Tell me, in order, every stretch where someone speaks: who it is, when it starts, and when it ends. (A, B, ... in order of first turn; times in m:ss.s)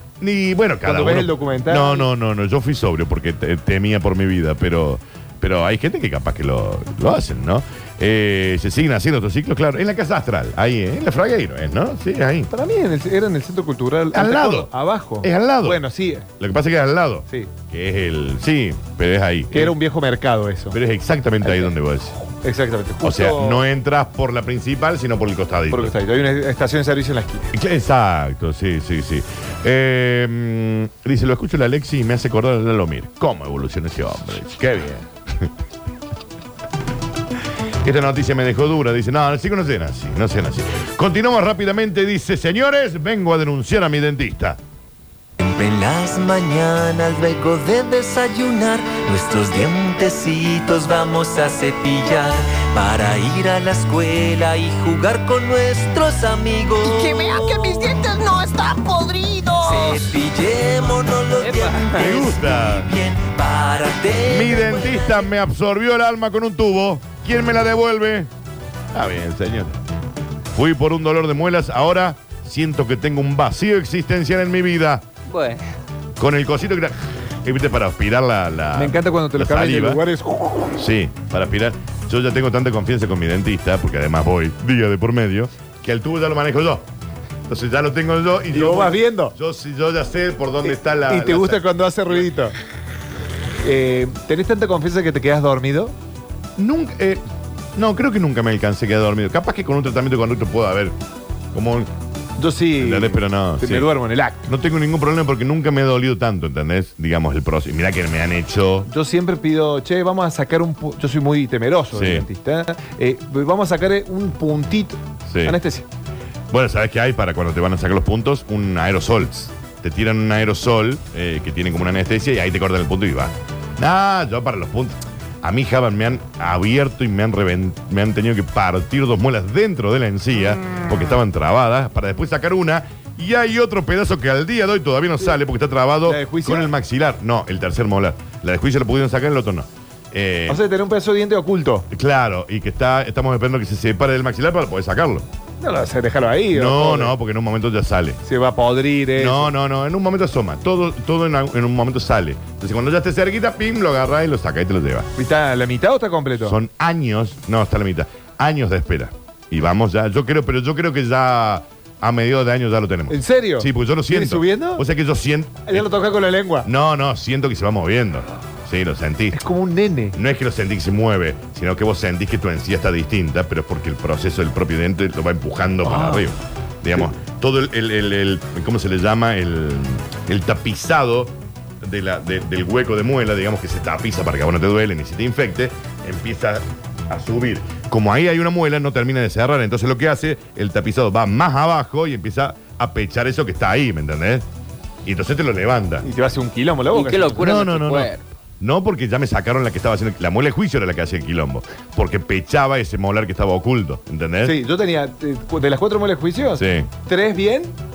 0:00.2-0:12.5 A
0:00.8-0:02.1 B
0:12.5-0:16.3 B
0:14.1-0:15.8 A
0:16.4-0:19.8 A
0:19.5-0:20.8 B
0:20.7-0:22.2 A
0:21.4-0:23.6 B
0:23.0-0:26.0 A
0:25.7-0:27.5 B
0:27.5-0:35.5 A
0:37.8-0:44.6 A
0:45.4-0:57.9 C
0:56.8-1:00.0 D
0:59.6-1:05.2 C
1:01.4-1:02.1 E
1:01.9-1:02.9 A
1:04.2-1:08.3 A
1:08.9-1:09.8 A
1:10.5-1:15.1 A
1:15.3-1:15.6 E
1:16.2-1:20.0 A
1:18.8-1:20.8 B
1:20.8-1:26.9 A
1:27.5-1:32.2 A
1:28.5-1:29.4 B
1:30.6-1:32.6 B
1:33.6-1:36.0 B
1:36.6-1:37.2 A
1:37.8-1:41.0 A
1:41.5-1:41.9 A
1:42.4-1:44.5 B
1:42.8-1:43.9 A
1:44.5-1:48.9 A
1:48.9-1:55.9 B
1:51.9-1:52.3 A
1:55.3-1:55.6 A
1:56.5-2:20.6 A
2:16.1-2:16.7 B
2:20.5-2:21.9 B
2:21.9-2:25.3 A
2:25.6-2:27.2 B
2:26.5-2:28.2 A
2:28.2-2:29.5 B
2:29.2-2:35.1 A
2:35.2-2:36.6 B
2:36.4-2:45.9 A
2:43.1-2:44.8 B
2:45.7-2:46.7 B
2:46.6-2:49.4 A
2:49.3-2:50.2 B
2:50.1-3:14.4 A
2:55.8-2:56.3 B
3:15.0-3:16.1 A
3:16.0-3:17.5 B
3:16.9-3:18.2 E
3:17.4-3:24.6 A
3:24.4-3:27.8 B
3:26.6-3:26.9 A